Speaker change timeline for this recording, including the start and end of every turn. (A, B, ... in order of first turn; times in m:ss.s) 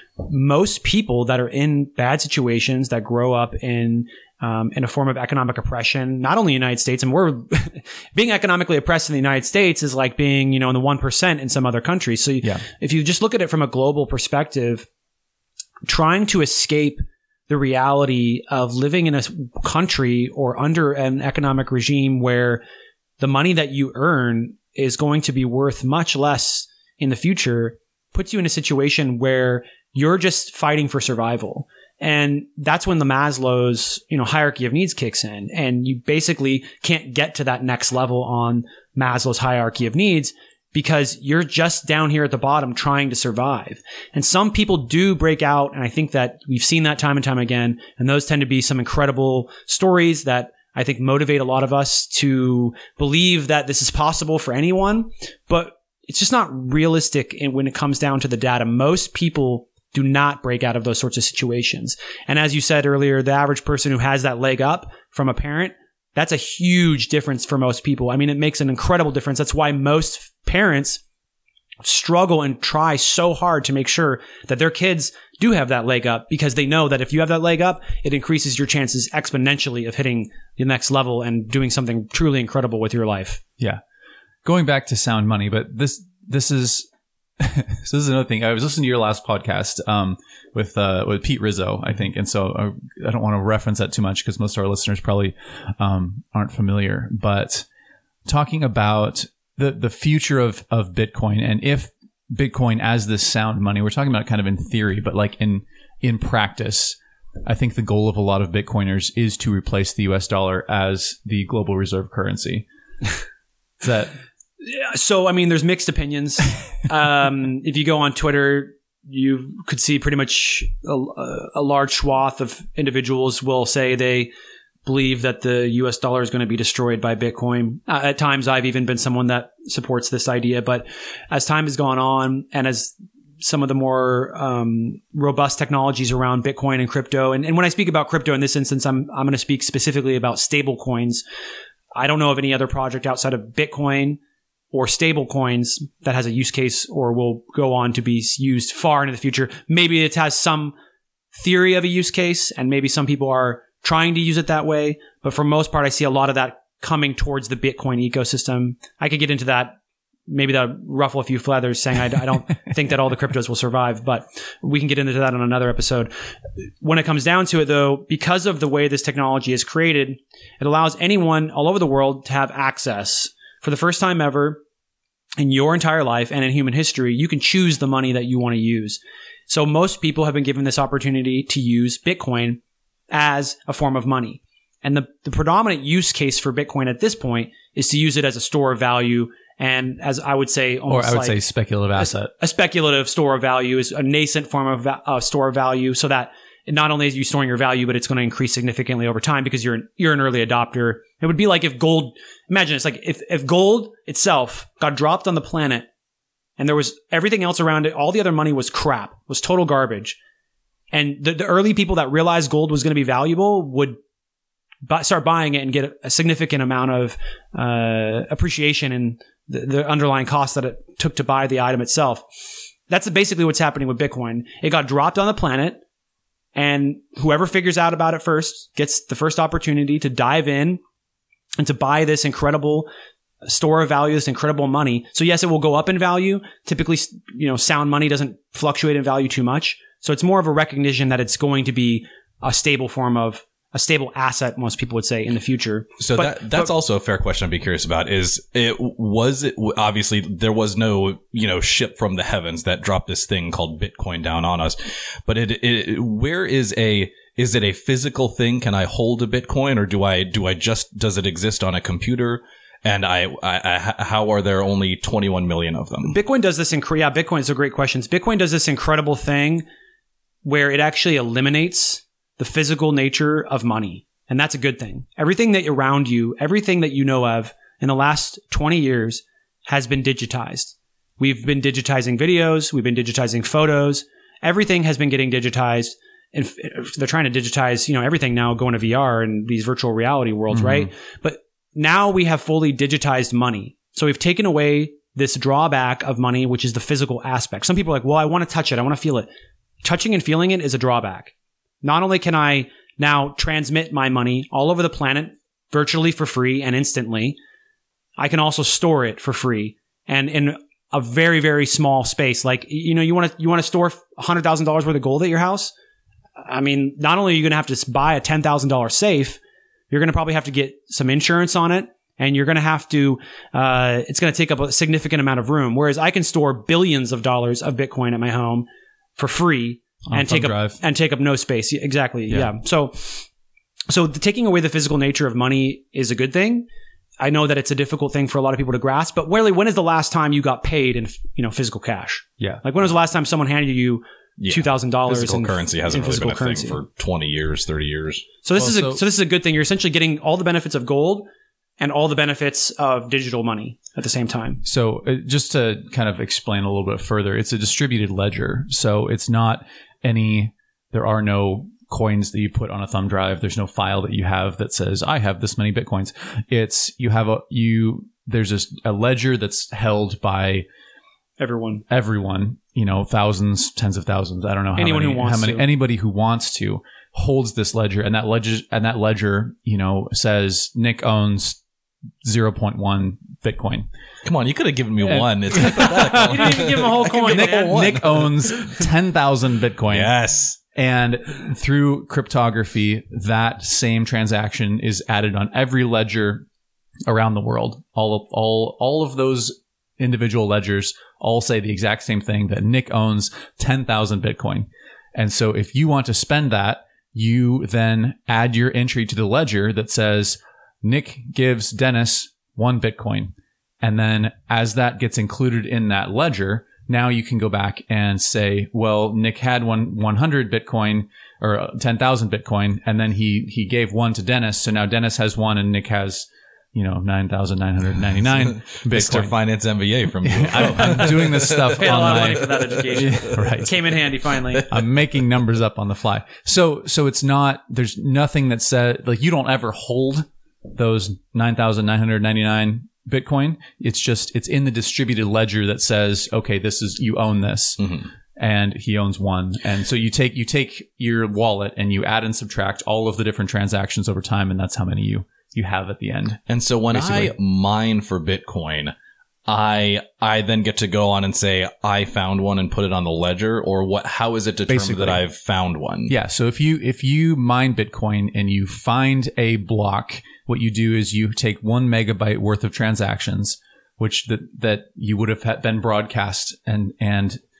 0:00.2-0:14.9 A
0:15.8-0:22.6 A
0:23.2-1:11.0 A
1:11.8-1:23.4 A
1:24.4-1:26.9 B
1:27.4-1:37.6 B
1:38.2-1:52.7 B
1:53.8-1:54.1 B
1:54.6-2:04.3 A
2:04.8-2:21.2 A
2:21.9-2:24.2 A
2:24.7-2:30.7 A
2:31.3-2:39.8 A
2:40.3-2:46.1 A
2:46.8-2:54.6 A
2:55.4-3:02.6 A
3:03.1-3:11.4 A
3:10.9-3:12.3 B
3:12.0-3:25.9 A
3:26.6-3:30.2 A
3:30.9-3:34.0 A
3:34.8-3:42.2 A
3:42.9-3:45.8 A
3:46.6-3:50.8 A
3:51.6-3:52.9 A
3:53.4-4:06.7 A
4:06.0-4:26.2 C
4:26.0-4:29.6 A
4:30.4-4:59.3 A
4:50.5-4:50.9 B
4:59.8-5:07.4 A
5:08.2-5:15.7 A
5:16.4-5:19.4 A
5:19.9-5:33.3 A
5:30.1-5:30.8 B
5:33.9-5:36.7 A
5:37.2-5:46.8 A
5:44.4-5:48.2 C
5:48.4-5:51.3 A
5:48.6-5:49.0 B
5:51.8-5:54.6 A
5:54.6-6:10.6 B
6:11.4-6:11.8 A
6:11.9-6:21.6 B
6:14.8-6:15.6 A
6:22.2-6:23.9 B
6:24.2-6:28.8 C
6:25.0-6:36.5 B
6:26.2-6:27.8 A
6:29.9-6:30.5 C
6:37.1-7:09.3 B
7:08.8-7:12.3 C
7:10.2-7:13.8 B
7:11.8-7:14.7 A
7:14.7-7:37.3 B
7:27.8-7:28.1 C
7:36.5-7:38.9 C
7:39.5-7:46.1 C
7:44.7-7:45.2 B
7:46.1-7:57.4 B